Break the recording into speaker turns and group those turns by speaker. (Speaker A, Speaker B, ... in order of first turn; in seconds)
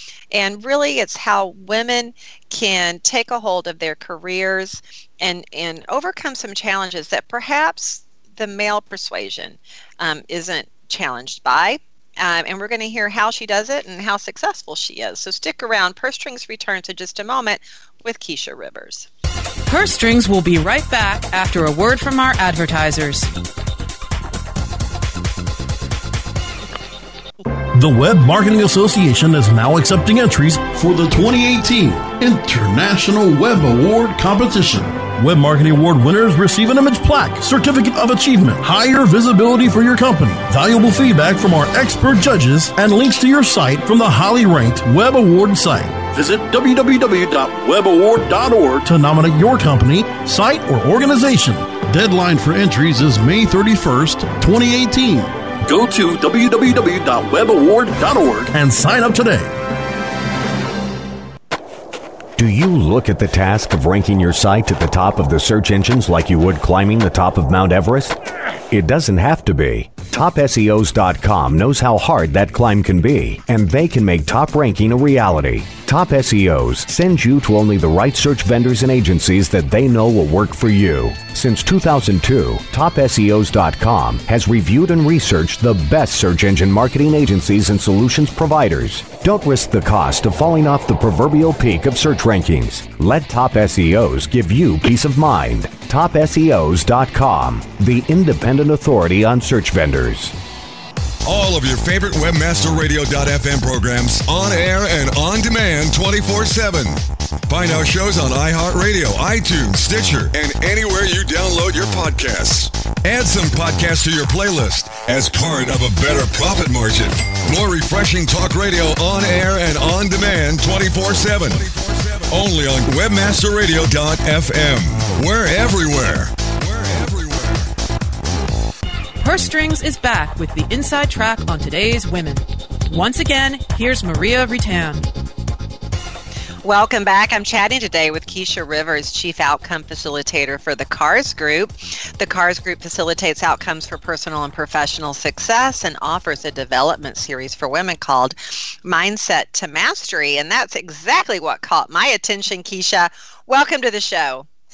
Speaker A: 0.3-19.1, 136.6-154.4
Speaker B: 19.7-23.3, 129.2-135.0
Speaker C: 27.7-59.5
Speaker D: 62.4-68.2, 68.7-100.3
Speaker E: 101.2-127.7